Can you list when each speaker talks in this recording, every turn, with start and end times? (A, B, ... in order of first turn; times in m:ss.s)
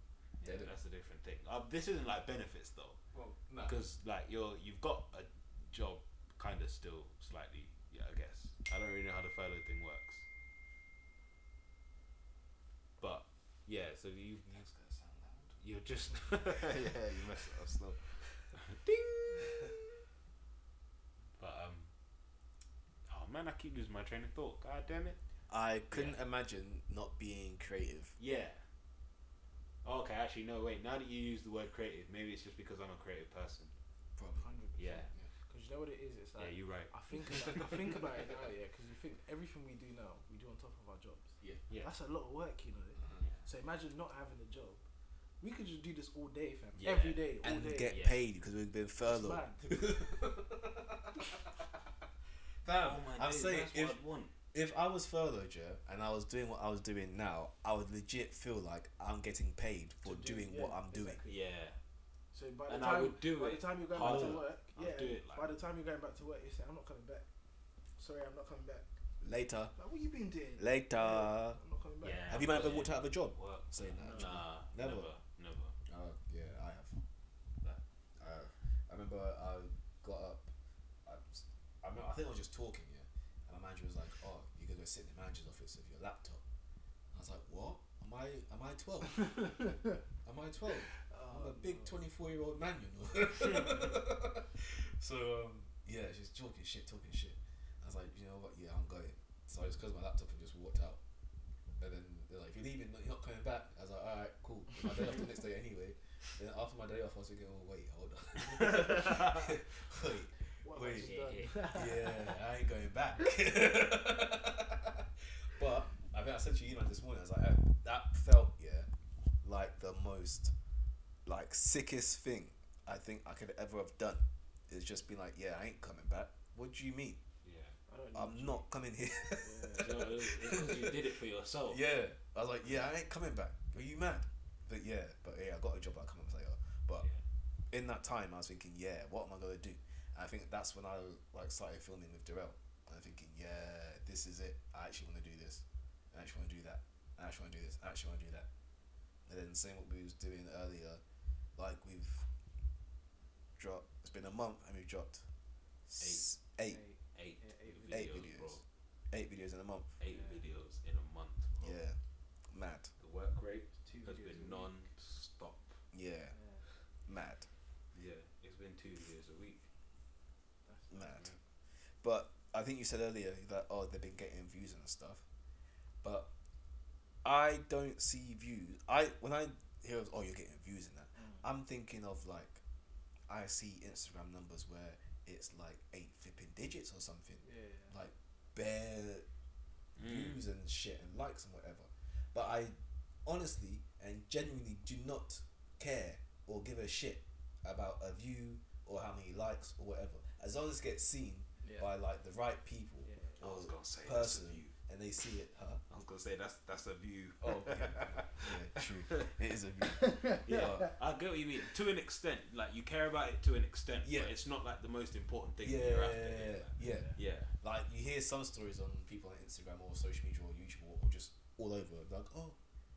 0:00.4-0:03.0 A
0:00.4-0:00.7 B
0:03.1-0:03.8 B
0:03.6-0:10.2 A
0:13.0-0:14.7 A
0:14.5-0:15.6 B
0:15.6-0:17.0 A
0:16.4-0:18.4 B
0:18.5-0:19.8 A
0:19.4-0:19.7 B
0:21.4-0:21.9 A
0:23.1-0:25.2 A
0:25.5-0:28.2 B
0:25.9-0:26.2 A
0:28.2-0:28.6 A
0:29.8-0:33.7 A
0:34.2-0:34.5 B
0:34.4-0:44.8 C
0:34.8-0:35.1 A
0:36.4-0:37.8 A
0:43.0-0:43.2 B
0:45.4-0:48.0 C
0:46.8-0:47.3 A
0:47.4-0:51.6 B
0:47.8-0:48.2 A
0:49.0-0:50.0 C
0:52.6-0:54.0 B
0:52.7-0:54.3 A
0:54.5-1:01.2 B
1:00.0-1:01.4 C
1:01.2-1:01.8 A
1:02.3-1:07.3 C
1:02.7-1:05.5 A
1:04.0-1:04.4 B
1:08.0-1:08.9 C
1:09.2-1:09.7 B
1:09.8-1:12.4 C
1:10.6-1:11.6 B
1:12.0-1:15.7 A
1:12.3-1:15.1 B
1:14.0-1:14.4 C
1:15.8-1:17.0 B
1:18.2-1:20.5 B
1:21.0-1:26.4 B
1:27.1-1:41.0 B
1:29.3-1:29.6 C
1:31.0-1:32.0 C
1:41.8-1:58.9 B
1:48.6-1:49.3 A
1:50.6-1:52.4 C
1:51.0-1:51.9 A
1:59.4-2:00.5 B
2:01.2-2:07.2 B
2:07.4-2:07.8 A
2:07.9-2:08.6 C
2:08.1-2:11.1 B
2:09.4-2:10.1 C
2:09.8-2:11.8 A
2:11.7-2:17.0 B
2:17.7-2:28.5 B
2:29.2-2:31.0 B
2:31.6-2:32.3 B
2:33.6-2:35.2 B
2:35.9-2:36.8 B
2:36.0-2:36.3 A
2:36.7-2:38.0 C
2:37.1-2:38.6 A
2:37.9-2:40.0 B
2:40.0-2:41.8 A
2:40.1-2:40.4 C
2:41.6-2:42.9 B
2:43.0-2:45.8 A
2:43.8-2:44.7 C
2:45.9-2:46.3 B
2:46.3-2:46.6 C
2:47.0-2:47.5 B
2:47.9-2:49.7 A
2:50.6-2:51.0 C
2:50.9-2:51.3 B
2:51.1-2:51.4 A
2:52.0-2:55.2 B
2:56.0-2:56.3 B
2:57.2-3:02.6 B
3:01.2-3:01.4 C
3:03.3-3:09.2 B
3:07.4-3:07.9 C
3:10.0-3:10.4 A
3:10.0-3:25.8 B
3:21.6-3:21.9 C
3:23.0-3:23.4 C
3:23.4-3:24.7 A
3:25.9-3:29.3 A
3:27.4-3:30.9 B
3:30.0-3:30.4 C
3:30.4-3:37.5 A
3:34.0-3:34.3 B
3:35.6-3:42.6 B
3:36.8-3:37.2 C